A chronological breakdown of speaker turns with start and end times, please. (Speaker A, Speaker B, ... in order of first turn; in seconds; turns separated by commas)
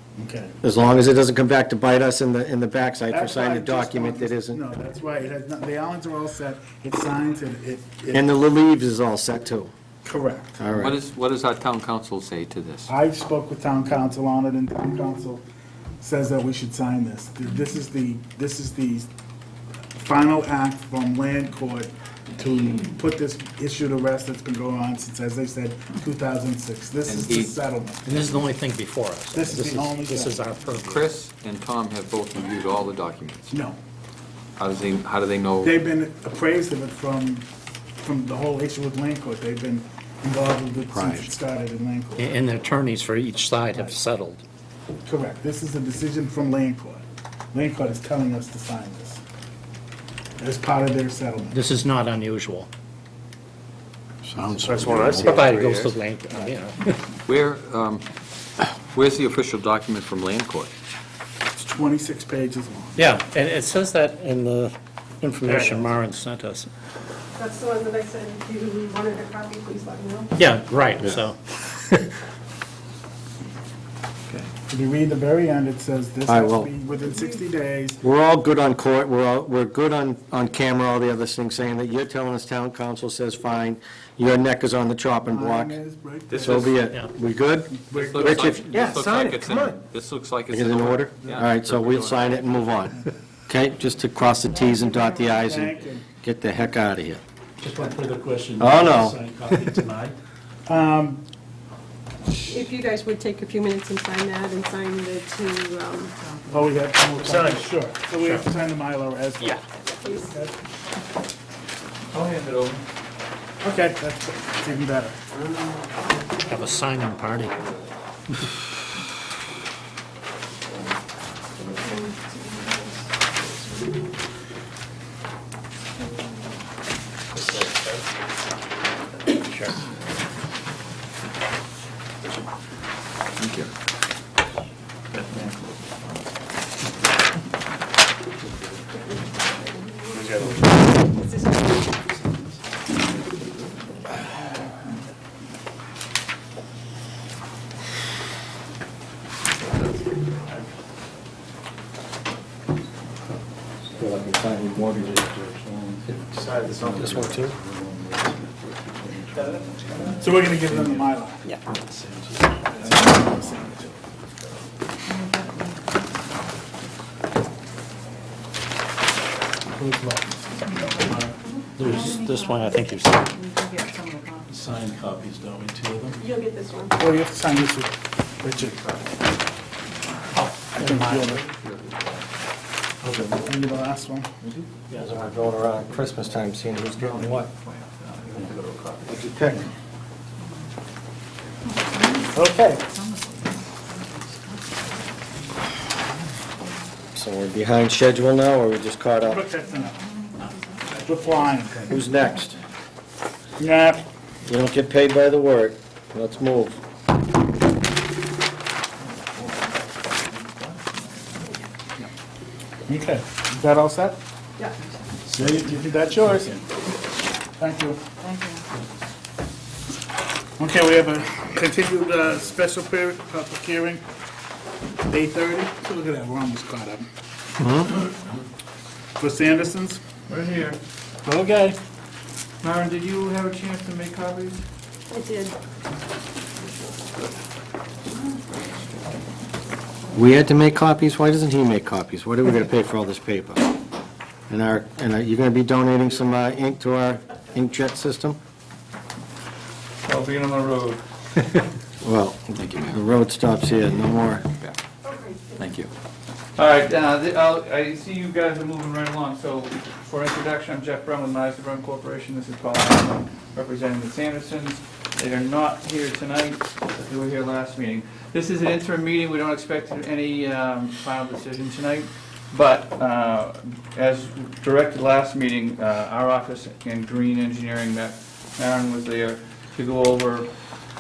Speaker A: 0.2-0.6, Speaker B: 0.6-4.6, Speaker A: 3.1-8.4, Speaker B: 8.1-9.7, Speaker A: 10.0-10.6, Speaker B: 10.6-11.0, Speaker C: 10.8-12.9, Speaker A: 12.9-15.4, Speaker A: 16.0-19.1, Speaker A: 20.0-28.3, Speaker C: 27.1-27.5, Speaker D: 28.1-31.1, Speaker A: 29.3-30.5, Speaker C: 30.9-33.5, Speaker A: 33.5-33.8, Speaker C: 34.6-35.7, Speaker A: 35.6-37.5, Speaker A: 38.0-42.4, Speaker D: 42.2-44.4, Speaker A: 45.0-49.2, Speaker A: 50.4-51.6, Speaker D: 51.5-52.7, Speaker E: 54.4-55.3, Speaker A: 54.5-55.0, Speaker D: 54.9-57.0, Speaker C: 57.3-58.0, Speaker C: 58.9-60.7, Speaker A: 61.6-63.0, Speaker D: 63.0-66.7, Speaker F: 67.3-70.3, Speaker D: 70.4-72.1, Speaker A: 74.7-78.0, Speaker B: 76.3-76.7, Speaker F: 77.1-77.3, Speaker B: 78.0-85.8, Speaker A: 85.2-86.8, Speaker C: 86.3-86.8, Speaker B: 86.4-89.8, Speaker A: 87.7-88.3, Speaker C: 88.0-92.5, Speaker B: 90.5-97.2, Speaker A: 91.2-91.5, Speaker A: 94.7-96.0, Speaker D: 97.6-99.8, Speaker E: 97.7-98.4, Speaker B: 98.6-99.2, Speaker E: 99.2-100.1, Speaker A: 100.7-101.2, Speaker F: 102.5-106.1, Speaker A: 106.5-109.6, Speaker F: 109.9-110.4, Speaker A: 110.2-110.5, Speaker G: 112.1-112.8, Speaker A: 113.6-115.2, Speaker D: 116.5-117.6, Speaker F: 121.6-124.1, Speaker F: 126.0-126.5, Speaker C: 133.4-133.7, Speaker F: 138.9-142.0, Speaker E: 140.2-140.5, Speaker B: 154.0-155.2, Speaker E: 154.0-161.0, Speaker B: 156.3-157.6, Speaker A: 160.2-161.4, Speaker E: 161.9-163.2, Speaker A: 162.7-163.9, Speaker A: 169.7-170.9, Speaker D: 171.8-173.4, Speaker E: 174.5-176.2, Speaker F: 176.2-177.1, Speaker A: 177.0-178.8, Speaker A: 180.7-181.5, Speaker A: 183.3-184.3, Speaker B: 184.9-187.5, Speaker G: 187.2-189.0, Speaker B: 189.1-189.7, Speaker A: 192.3-192.8, Speaker B: 197.1-199.4, Speaker A: 199.2-200.0, Speaker A: 200.9-202.0, Speaker B: 201.9-202.6, Speaker A: 203.6-204.0, Speaker B: 204.5-206.8, Speaker G: 210.3-211.5, Speaker A: 212.9-214.2, Speaker A: 215.3-216.7, Speaker A: 217.6-218.0, Speaker F: 218.2-218.6, Speaker A: 220.6-224.0, Speaker A: 225.1-227.0, Speaker B: 227.6-227.9, Speaker A: 229.2-230.0, Speaker G: 230.3-230.8, Speaker A: 231.2-231.8, Speaker G: 232.6-234.6, Speaker F: 235.1-235.6, Speaker G: 236.9-237.3, Speaker G: 238.1-238.8, Speaker B: 240.1-243.6, Speaker B: 244.5-248.4, Speaker G: 250.1-251.0, Speaker B: 252.0-254.4, Speaker C: 252.6-252.9, Speaker F: 255.0-255.7, Speaker C: 255.6-255.9, Speaker G: 256.6-280.5